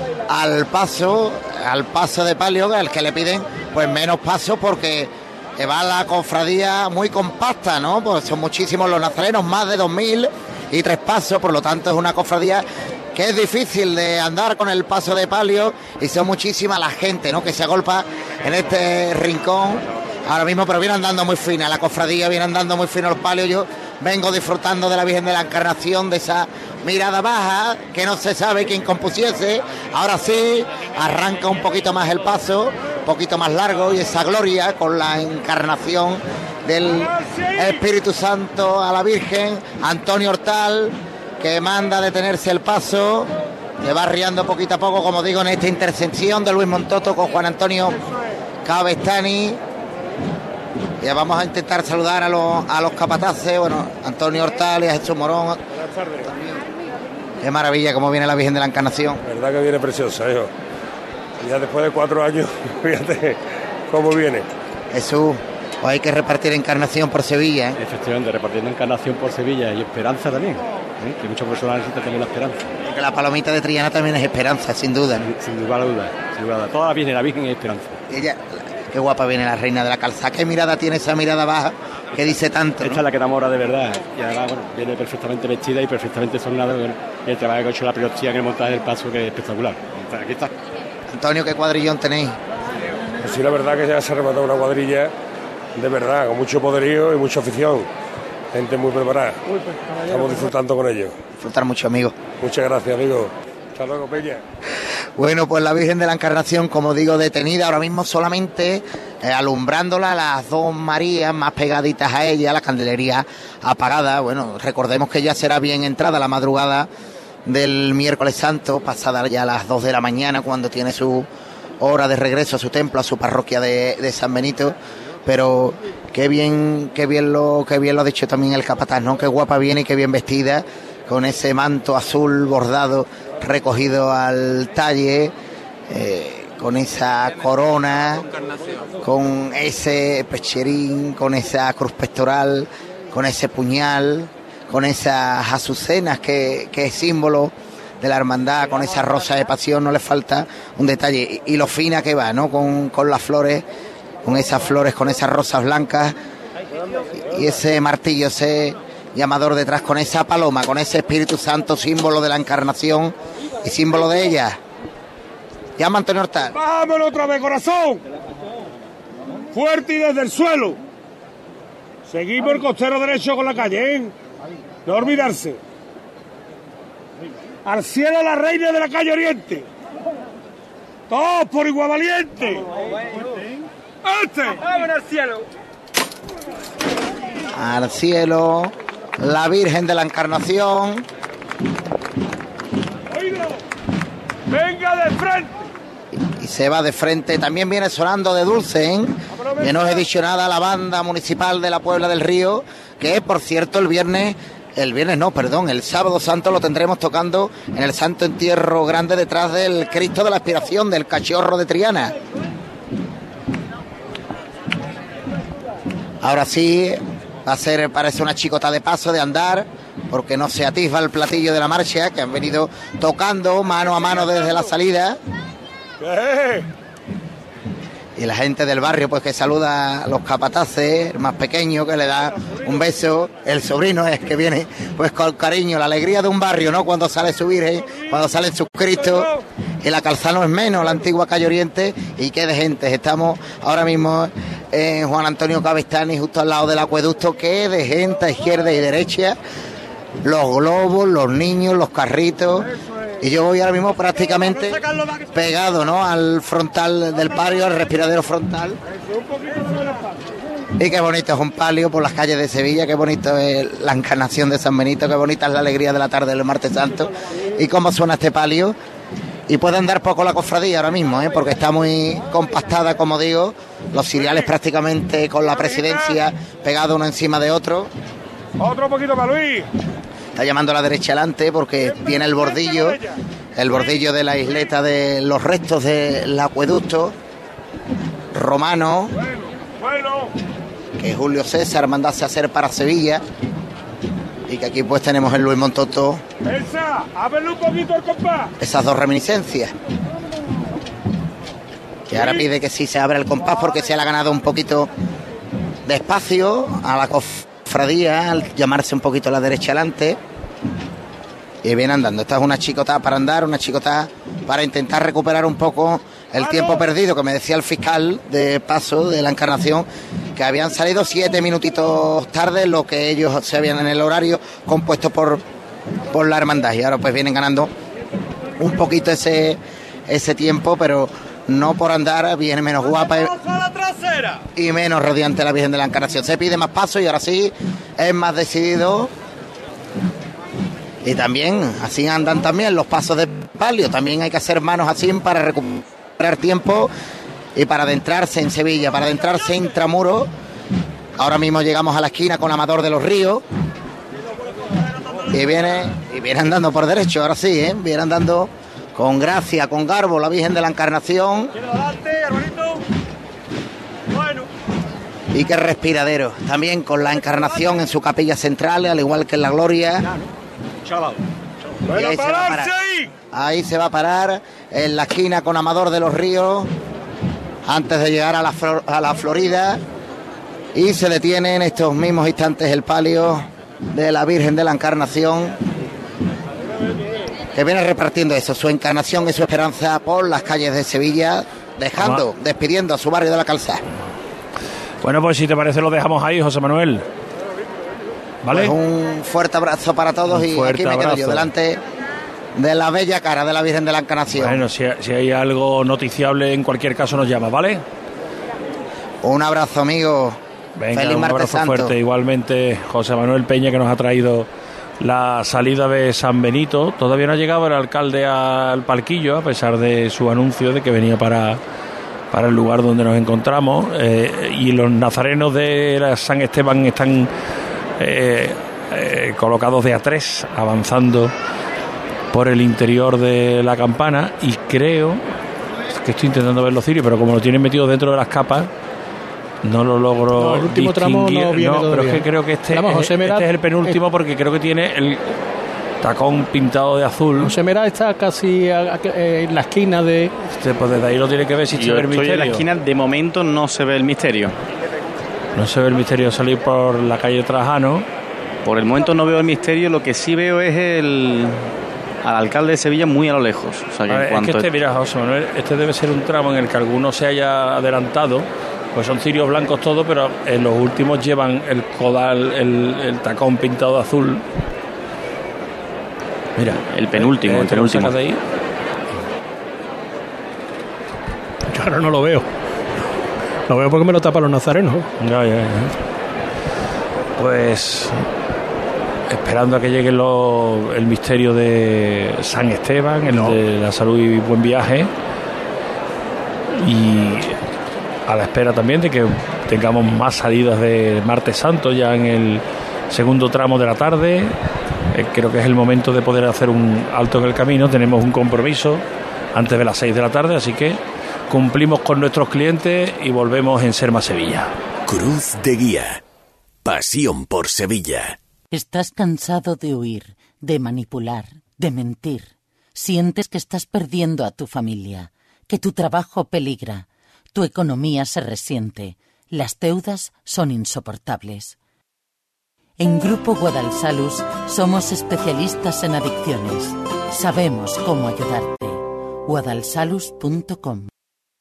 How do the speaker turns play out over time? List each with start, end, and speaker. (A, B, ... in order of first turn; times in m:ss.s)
0:00.3-0:43.3 A
0:43.8-0:48.0 A
0:48.6-0:49.6 A
0:51.0-0:55.6 A
0:57.4-0:59.2 A
0:59.3-1:00.5 B
1:01.4-1:03.4 B
1:03.9-1:04.5 B
1:04.9-1:07.8 A
1:07.8-1:12.6 C
1:12.9-1:15.3 A
1:15.3-1:17.9 C
1:18.1-1:23.0 A
1:22.8-1:30.5 C
1:31.1-1:32.4 A
1:33.2-1:35.1 B
1:35.8-1:37.9 B
1:38.5-1:39.4 B
1:40.1-1:41.1 B
1:41.4-1:42.2 A
1:42.4-1:44.4 B
1:45.2-1:56.9 A
1:57.5-2:01.3 A
2:01.8-2:15.3 A
2:15.9-2:18.3 A
2:19.0-2:33.6 A
2:34.2-2:36.2 A
2:37.2-2:44.6 A
2:45.8-2:46.6 A
2:46.6-2:48.0 B
2:49.5-2:50.8 B
2:52.1-2:54.1 B
2:54.9-2:55.6 B
2:57.7-2:59.6 B
3:01.1-3:02.6 B
3:04.1-3:04.5 B
3:07.5-3:11.0 A
3:14.6-3:15.5 B
3:16.4-3:32.1 A
3:36.2-3:45.2 A
3:46.0-3:46.6 B
3:48.2-4:09.4 A
4:10.2-4:12.7 A
4:13.2-4:18.8 A
4:20.8-4:28.8 A
4:29.5-4:37.9 A
4:38.6-4:39.6 B
4:40.4-4:43.0 A
4:43.6-4:47.2 A
4:48.3-4:49.1 A
4:51.0-4:53.2 A
4:54.5-4:56.2 A
4:56.6-4:58.4 B
4:58.6-4:59.7 A
5:02.1-5:04.9 A
5:05.9-5:10.2 A
5:11.6-5:25.4 A
5:26.1-5:27.7 A
5:28.6-5:33.4 A
5:34.5-5:39.1 A
5:41.0-5:46.9 A
5:47.6-5:50.3 A
5:51.2-5:53.4 A
5:55.3-6:01.6 A
6:05.3-6:10.1 A
6:11.9-6:12.8 A
6:13.3-6:16.7 A
6:17.7-6:19.8 A
6:20.8-6:25.6 A
6:27.6-6:33.8 A
6:32.0-6:32.2 D
6:35.0-6:37.0 D
6:38.4-6:38.7 D
6:38.5-6:41.8 A
6:40.3-6:41.5 D
6:42.6-6:44.6 A
6:44.3-6:47.8 D
6:49.2-6:50.4 A
6:50.8-6:54.5 D
6:50.9-6:51.9 A
6:55.0-7:01.6 D
7:02.3-7:07.3 D
7:08.0-7:11.3 D
7:12.3-7:15.2 D
7:15.9-7:18.7 D
7:19.6-7:25.3 D
7:20.4-7:24.0 E
7:26.0-7:27.5 D
7:27.4-7:30.3 E
7:30.5-7:32.6 D
7:31.7-7:34.5 F
7:35.6-7:38.1 D
7:38.6-7:41.6 F
7:42.2-7:44.7 F
7:44.1-7:54.4 D
7:56.6-7:58.4 D
7:56.9-7:58.2 F
8:01.7-8:02.5 E
8:03.7-8:05.1 E
8:05.2-8:05.9 D
8:07.4-8:08.2 D
8:09.3-8:15.1 D
8:16.8-8:17.6 D
8:18.3-8:24.6 D
8:25.1-8:29.0 D
8:29.6-8:34.7 D
8:35.1-8:36.2 G
8:36.8-8:38.4 G
8:38.7-8:51.8 H
8:53.0-9:01.1 H